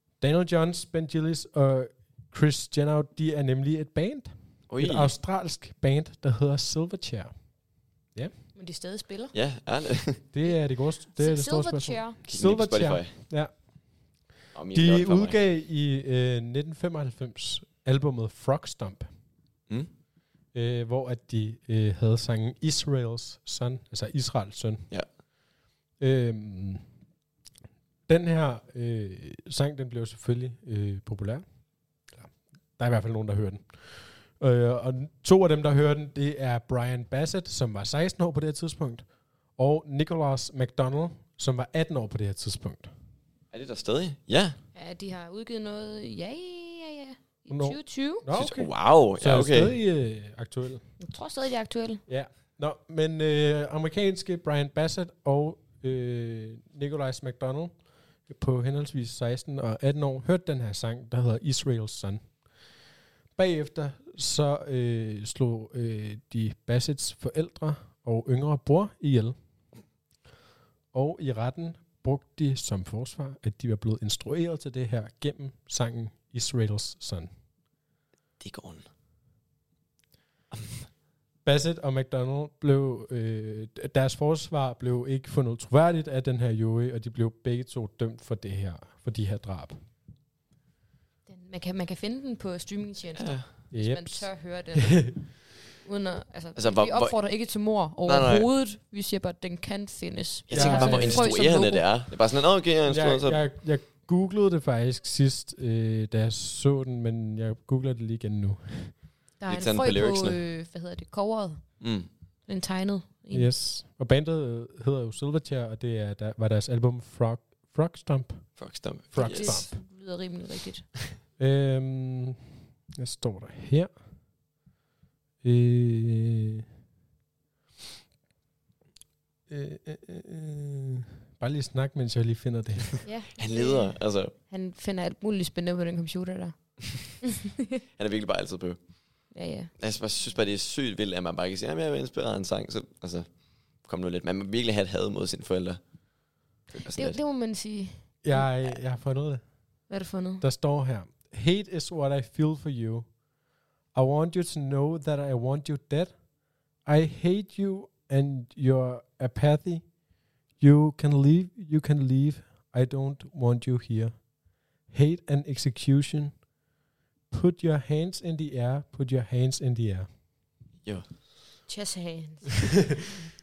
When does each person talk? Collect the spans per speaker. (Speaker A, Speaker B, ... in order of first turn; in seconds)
Speaker A: 0.2-8.3, 10.3-19.1, 20.5-24.9, 26.0-26.8, 28.1-31.4, 32.1-42.9, 47.5-50.9, 52.1-62.4, 63.3-69.3, 70.9-77.3, 81.4-89.8, 93.7-95.1, 100.5-101.3, 102.9-109.0, 113.3-119.8, 121.4-122.4, 123.0-123.9, 125.4-126.6, 129.5-133.0, 148.2-153.2, 153.9-160.0, 160.6-166.4, 167.3-170.1
Speaker B: 4.7-5.1, 9.3-10.2, 12.3-13.1, 14.5-15.4, 43.5-44.6, 48.3-49.8, 78.4-78.8, 80.5-80.8, 93.2-93.5, 96.5-97.2, 98.0-98.5, 100.5-103.4, 109.5-110.4, 111.8-112.1, 118.6-119.7, 133.4-134.3, 138.0-147.2
Speaker C: 8.6-9.3, 11.2-12.2, 44.7-48.2, 51.0-52.0, 91.3-95.3, 95.8-101.9, 109.4-111.8, 112.5-113.5, 119.2-120.9, 133.0-137.2, 139.3-139.7, 146.9-148.5, 149.9-150.4, 171.7-172.8